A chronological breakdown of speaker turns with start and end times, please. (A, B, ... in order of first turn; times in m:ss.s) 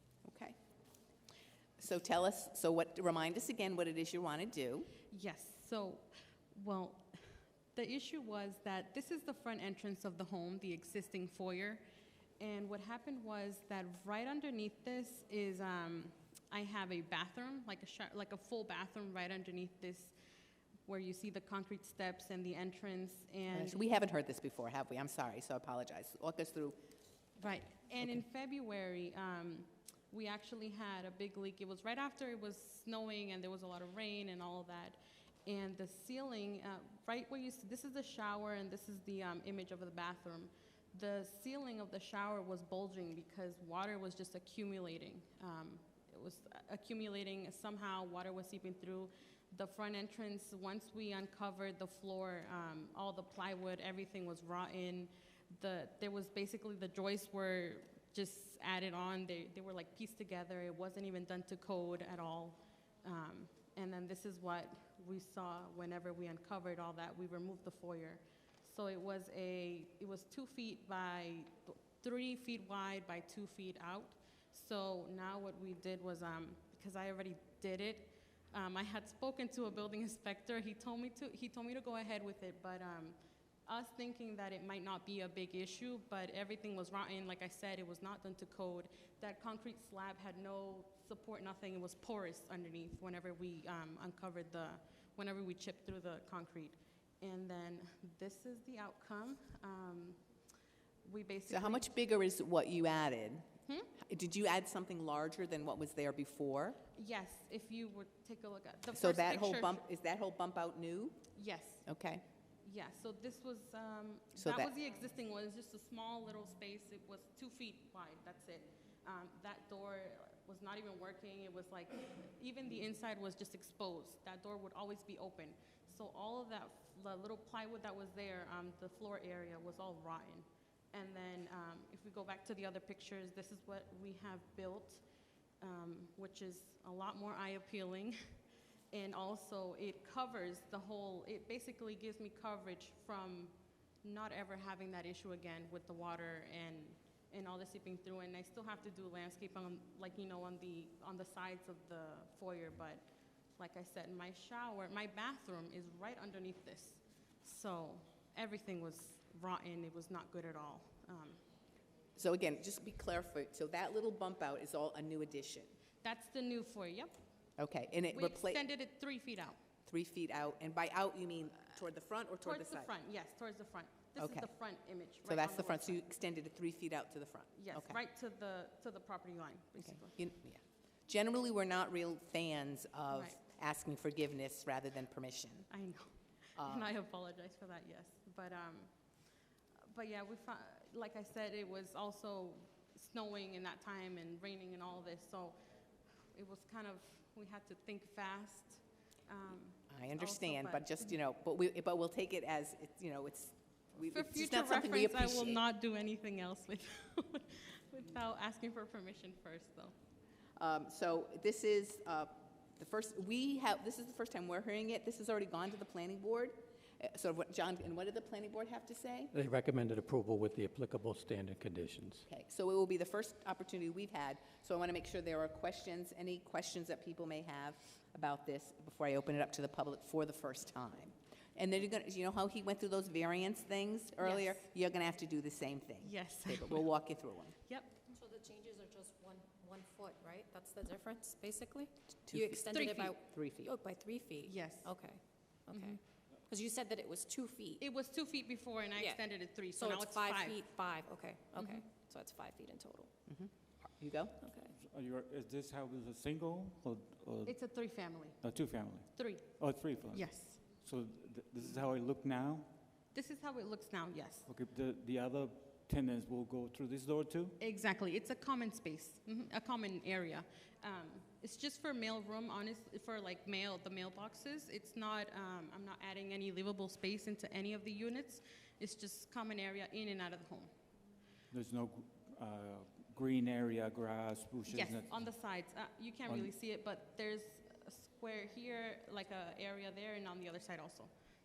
0:00.2-0:00.6 A
0:01.8-0:04.9 A
0:05.1-0:07.2 B
0:07.8-0:11.8 B
0:12.4-0:20.1 B
0:20.9-0:23.8 B
0:23.5-0:26.8 A
0:27.4-1:23.2 B
1:23.7-1:40.2 B
1:41.0-1:41.8 B
1:41.5-1:43.5 A
1:44.0-1:46.8 A
1:47.0-1:49.8 B
1:48.9-1:51.2 A
1:51.4-1:51.8 B
1:51.8-1:52.2 A
1:52.6-2:15.0 B
1:54.4-1:54.7 A
2:15.6-2:18.2 B
2:18.9-2:33.0 B
2:33.6-2:41.4 B
2:42.2-2:45.7 A
2:46.0-2:47.1 B
2:47.6-2:48.6 A
2:48.1-2:49.6 B
2:49.8-2:52.9 A
2:52.4-2:56.0 B
2:54.2-2:54.5 A
2:55.2-2:58.0 A
2:57.5-3:00.2 B
2:59.8-3:05.7 A
3:03.1-3:03.4 B
3:05.7-3:08.9 B
3:06.6-3:06.9 A
3:09.9-3:15.6 B
3:16.3-3:21.1 B
3:19.9-3:25.6 A
3:24.1-3:29.9 B
3:30.6-3:39.3 A
3:39.3-3:42.2 C
3:42.2-3:57.5 A
3:54.2-3:54.6 B
3:56.0-3:56.9 B
3:57.7-3:58.0 B
3:58.1-4:07.8 D
4:02.3-4:03.7 A
4:04.4-4:04.9 B
4:05.7-4:06.0 B
4:07.8-4:10.6 B
4:09.7-4:13.1 D
4:11.6-4:11.8 B
4:13.3-4:14.4 A
4:14.4-4:14.7 D
4:14.7-4:17.7 E
4:17.5-4:19.5 B
4:18.4-4:22.7 E
4:20.1-4:20.6 B
4:23.1-4:24.5 B
4:24.5-4:27.6 E
4:27.6-4:40.7 B
4:41.5-4:45.3 E
4:44.7-4:51.1 B